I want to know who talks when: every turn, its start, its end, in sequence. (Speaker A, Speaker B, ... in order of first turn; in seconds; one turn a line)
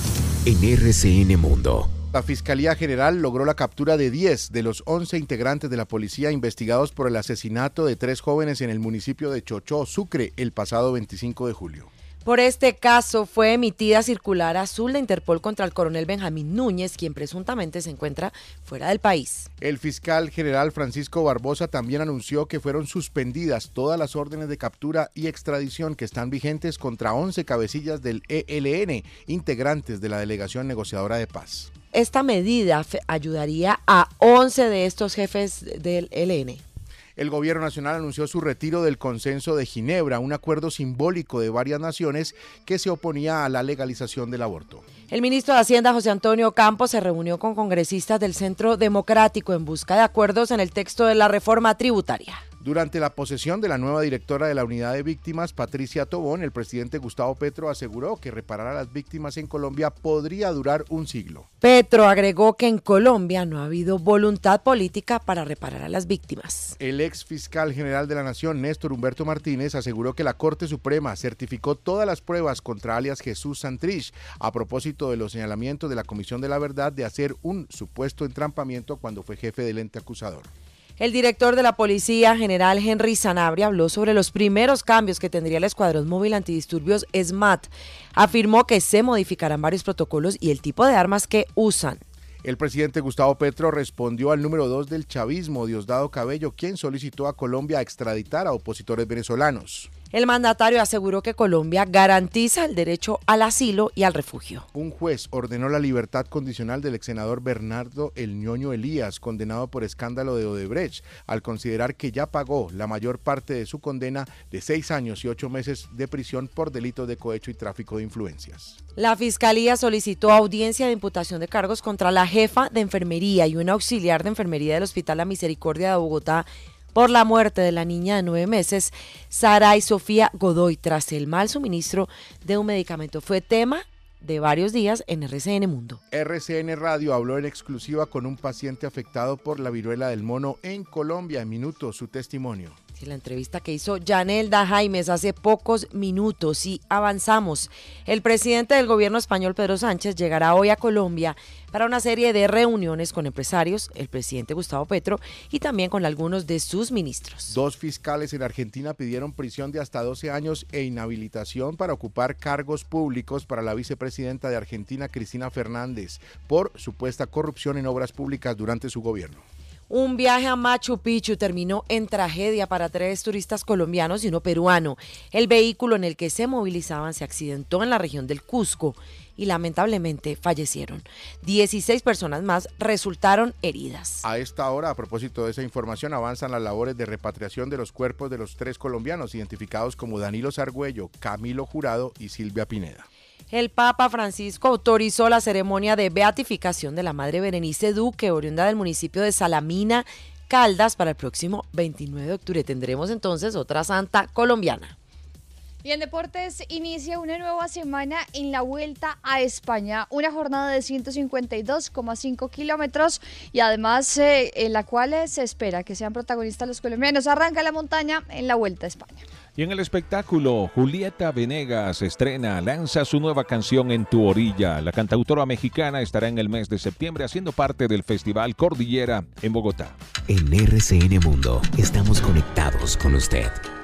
Speaker A: 0.4-1.9
Speaker B: 2.1-11.9
Speaker C: 12.2-19.5
Speaker B: 19.6-31.7
Speaker C: 31.9-36.6
Speaker B: 37.1-44.8
Speaker C: 45.1-52.4
Speaker B: 52.6-61.5
Speaker C: 61.6-66.8
Speaker B: 66.8-80.5
Speaker C: 81.0-92.0
Speaker B: 92.4-99.9
Speaker C: 100.1-104.7
Speaker B: 104.7-118.8
Speaker C: 119.0-136.0
Speaker B: 136.1-142.8
Speaker C: 143.0-157.5
Speaker B: 157.5-169.4
Speaker C: 169.9-184.2
Speaker B: 184.2-193.1
Speaker C: 193.5-204.9
Speaker D: 205.8-219.2
Speaker E: 219.6-229.9
Speaker A: 230.3-233.6